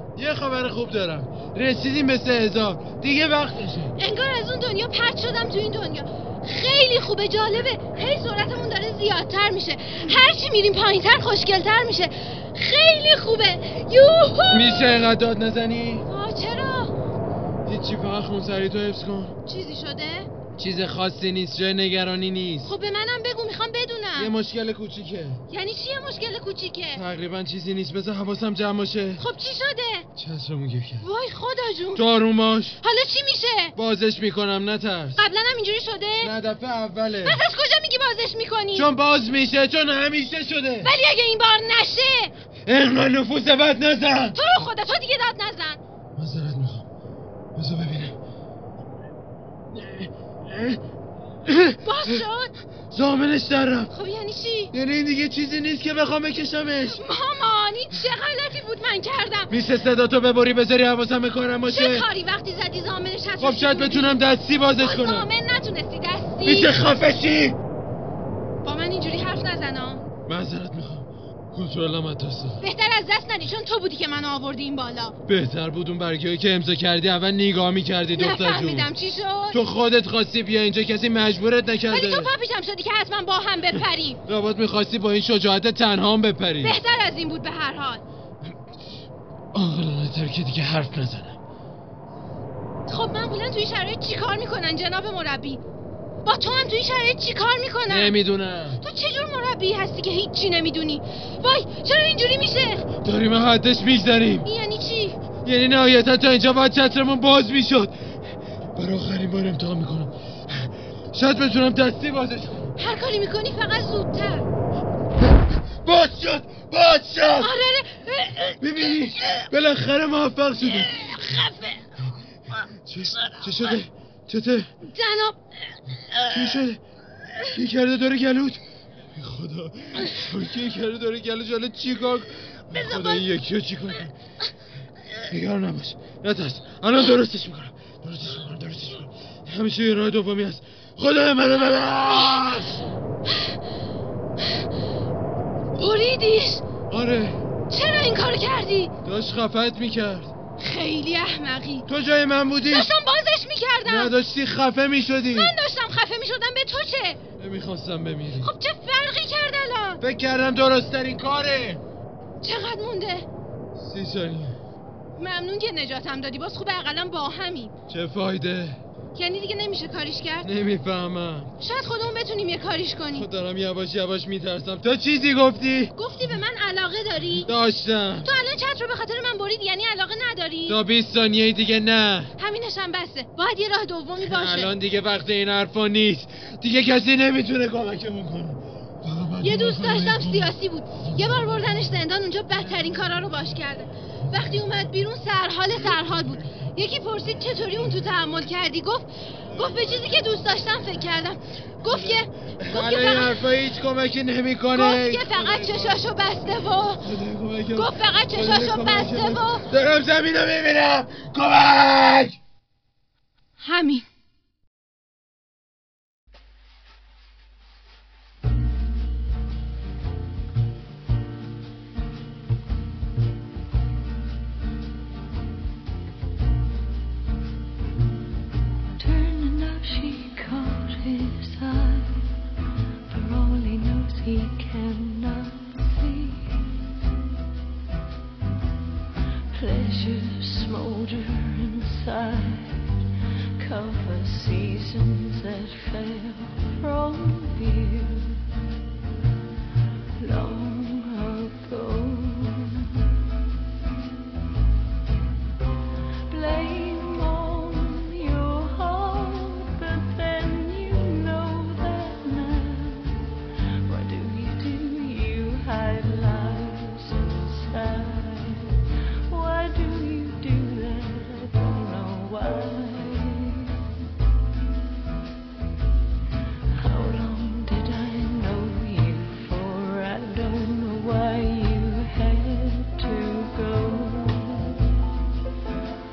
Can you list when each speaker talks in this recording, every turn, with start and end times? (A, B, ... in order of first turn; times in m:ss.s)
0:00.2-0:03.9 A
0:04.0-0:15.0 B
0:14.5-0:16.0 A
0:16.0-0:16.9 B
0:17.6-0:19.3 A
0:19.4-0:20.3 B
0:20.6-0:22.7 A
0:22.6-0:24.3 B
0:24.2-0:25.4 A
0:25.5-0:27.0 B
0:26.9-0:29.2 A
0:29.2-0:30.1 B
0:30.2-0:31.1 A
0:31.0-0:32.1 B
0:31.9-0:32.8 A
0:32.8-0:33.7 B
0:33.7-0:35.2 A
0:35.2-0:36.3 B
0:36.2-0:37.4 A
0:37.2-0:38.9 B
0:38.7-0:40.9 A
0:40.8-0:42.3 B
0:42.6-0:44.4 A
0:44.3-0:45.8 B
0:46.2-0:46.8 A
0:47.6-0:48.1 A
0:49.7-0:50.8 A
0:51.4-0:52.2 A
0:51.8-0:52.5 B
0:52.9-0:53.9 A
0:53.9-0:54.7 B
0:54.7-0:57.0 A
0:56.8-0:59.5 B
0:59.5-1:02.0 A
1:01.7-1:04.2 B
1:03.4-1:05.3 A
1:04.8-1:06.8 B
1:06.4-1:07.6 A
1:08.6-1:10.0 B
1:10.3-1:12.6 A
1:12.6-1:15.2 B
1:15.3-1:18.9 A
1:18.1-1:19.6 B
1:19.5-1:22.3 A
1:21.8-1:24.2 B
1:24.2-1:26.8 A
1:26.6-1:28.0 B
1:29.5-1:31.4 A
1:32.9-1:35.6 B
1:36.2-1:38.2 B
1:37.9-1:38.8 A
1:38.8-1:42.9 B
1:43.0-1:44.5 A
1:44.4-1:45.2 B
1:45.4-1:48.0 A
1:48.8-1:50.1 A
1:51.1-1:52.7 A
1:52.8-1:54.5 B
1:55.8-1:57.5 A
1:57.4-1:58.6 B
1:58.6-2:01.4 A
2:00.8-2:01.9 B
2:02.5-2:04.7 A
2:04.8-2:05.4 B
2:06.1-2:06.8 A
2:07.4-2:08.6 A
2:09.1-2:14.1 A
2:10.0-2:10.3 B
2:12.7-2:13.3 B
2:15.3-2:22.8 A
2:23.3-2:23.6 B
2:24.4-2:24.6 B
2:25.8-2:26.6 B
2:26.9-2:27.4 A
2:27.7-2:28.9 B
2:29.0-2:30.3 A
2:30.6-2:31.9 B
2:31.9-2:32.9 A
2:32.7-2:34.1 B
2:33.8-2:35.6 A
2:35.3-2:37.2 B
2:37.4-2:38.5 A
2:38.4-2:40.0 B
2:40.0-2:41.8 A
2:42.4-2:43.3 B
2:43.8-2:44.6 A
2:45.2-2:47.7 B
2:47.9-2:48.8 A
2:49.1-2:50.5 B
2:50.4-2:51.5 A
2:51.6-2:53.3 B
2:53.1-2:56.3 A
2:56.0-2:57.5 B
2:57.4-2:58.3 A
2:58.2-3:00.8 B
3:00.7-3:02.3 A
3:02.4-3:04.7 B
3:04.2-3:12.0 A
3:09.4-3:23.4 B
3:12.5-3:13.4 A
3:14.2-3:14.9 A
3:15.7-3:16.7 A
3:19.5-3:20.3 A
3:21.8-3:26.0 A
3:24.7-3:27.0 B
3:27.0-3:32.4 A
3:27.7-3:29.7 B
3:33.6-3:34.0 B
3:49.0-3:52.3 C
3:53.1-3:56.8 C
3:59.5-4:03.0 C
4:03.6-4:08.4 C
4:10.2-4:13.1 C
4:16.3-4:34.0 C
4:36.7-4:44.8 C